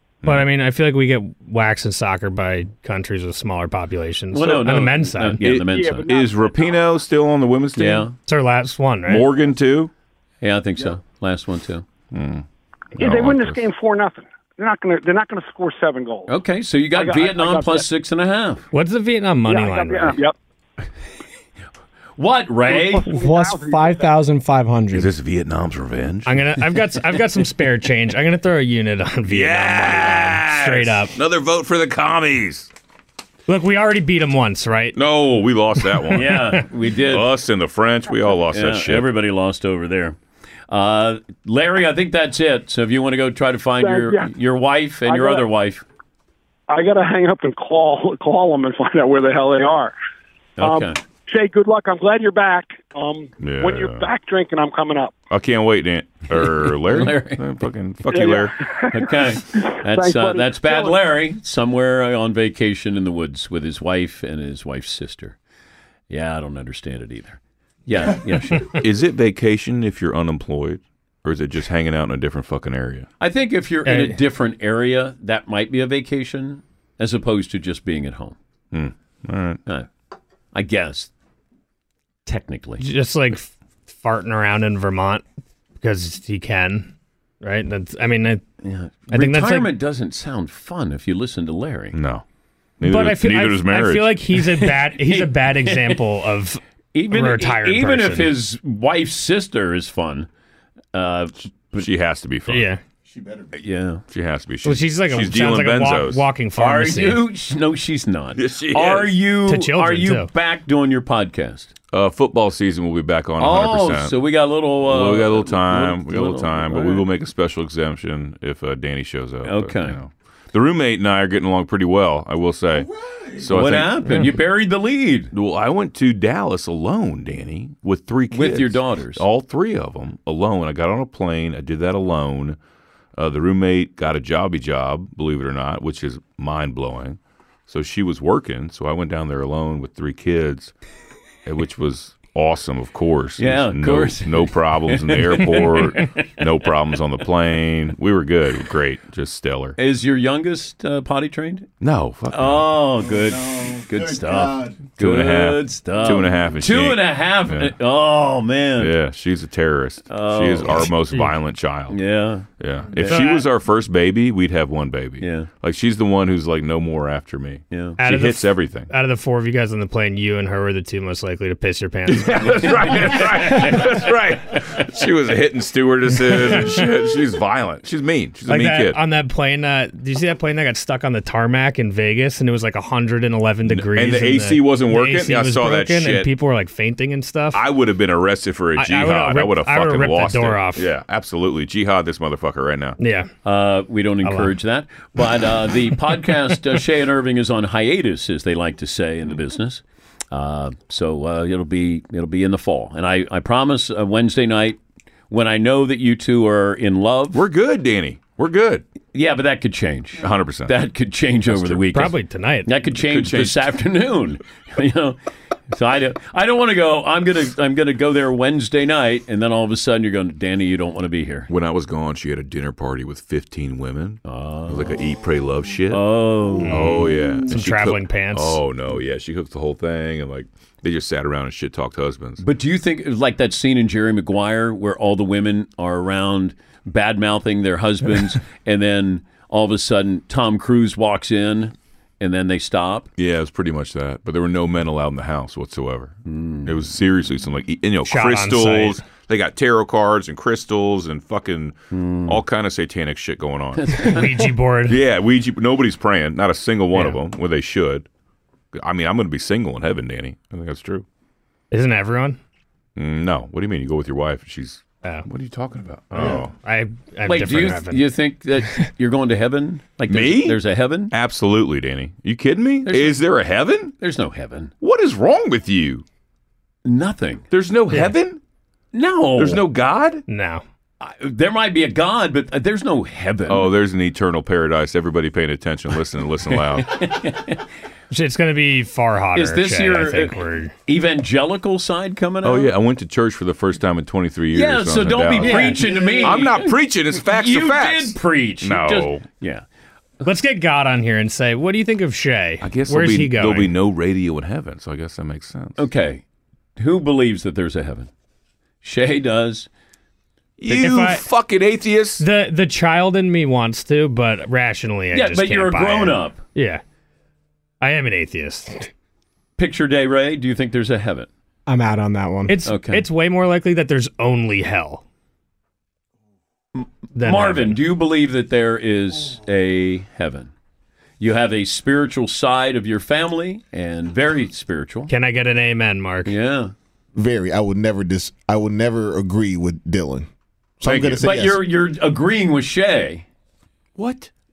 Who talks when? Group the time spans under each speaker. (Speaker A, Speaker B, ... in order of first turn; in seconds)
Speaker A: 0.2-5.4, 8.2-9.2, 18.7-20.2, 26.2-31.1, 33.5-35.0, 36.1-36.6, 73.8-74.2, 82.8-85.2, 85.8-88.4, 89.1-89.7, 92.8-96.6, 97.1-98.3, 102.5-102.8, 104.6-107.2, 109.5-110.3, 163.1-163.4, 168.0-173.8, 176.3-176.6, 178.5-187.6, 188.8-190.9, 193.0-193.3, 194.2-194.5, 211.9-212.7, 226.6-228.6, 248.1-249.0, 254.0-255.0, 256.9-257.2, 261.7-262.4, 266.1-268.1, 280.3-280.6, 288.1-290.7, 295.4-296.4, 300.2-303.7, 310.8-311.2, 312.2-316.8, 317.8-318.9, 322.5-325.0, 327.1-327.8, 335.1-336.3
Speaker B: 4.3-6.1, 7.8-8.1, 10.4-11.8, 16.3-18.6, 22.2-23.1, 36.1-37.3, 38.5-40.2, 40.7-45.8, 50.6-51.0, 56.3-57.4, 58.9-65.4, 66.1-68.8, 73.2-78.3, 80.5-81.1, 82.2-82.8, 88.6-92.0, 94.4-96.0, 96.9-100.3, 100.9-101.8, 103.5-104.0, 106.6-111.7, 113.4-117.1, 119.4-120.0, 123.4-125.3, 128.3-129.2, 143.4-146.3, 149.8-151.7, 152.3-158.9, 160.1-160.9, 161.9-163.3, 165.2-165.5, 167.7-168.0, 172.4-173.8, 193.4-204.8, 205.3-207.4, 209.1-212.1, 212.7-215.2, 215.7-221.5, 224.2-224.9, 225.9-227.4, 232.4-243.1, 246.3-246.7, 251.9-252.4, 253.8-254.4, 267.2-271.1, 272.8-273.2, 274.0-274.7, 276.8-277.4, 278.9-279.6, 281.0-283.7, 286.5-287.6, 289.3-292.7, 294.5-299.6, 305.8-306.2, 306.8-308.1, 308.8-309.7, 310.7-310.9, 315.1-316.4, 319.6-321.3, 322.6-323.1, 326.8-330.5, 331.2-335.1, 336.3-336.7, 341.2-343.2
Speaker C: 5.4-8.1, 9.1-9.9, 12.1-12.4, 12.9-13.6, 24.9-26.4, 29.3-32.7, 34.9-39.1, 53.4-54.1, 55.3-58.5, 68.7-73.1, 78.7-79.6, 91.9-92.2, 92.8-94.1, 101.8-102.7, 104.1-106.2, 108.3-109.1, 111.9-114.1, 114.8-122.9, 123.4-124.2, 125.3-132.6, 133.2-140.7, 141.4-149.8, 151.8-152.7, 155.0-157.7, 158.8-162.0, 162.6-168.9, 172.1-179.0, 183.7-186.3, 187.5-193.0, 207.3-208.8, 210.2-210.7, 211.5-211.9, 212.9-213.7, 221.5-226.0, 226.7-232.4, 243.2-254.1, 254.9-258.1, 258.7-261.0, 262.9-266.5, 270.1-270.6, 271.1-273.9, 274.8-276.0, 277.5-278.4, 279.4-280.2, 283.5-287.0, 292.4-299.2, 302.6-305.8, 310.6-312.2, 340.8-341.3, 344.0-344.3
Speaker D: 5.7-6.8, 13.0-16.3, 16.9-17.9, 19.5-20.3, 22.6-24.1, 43.8-44.3, 45.0-45.5, 46.7-49.9, 50.6-55.1, 58.1-61.0
Speaker E: 23.1-25.1, 321.7-322.6
Speaker F: 337.1-340.3, 340.8-341.6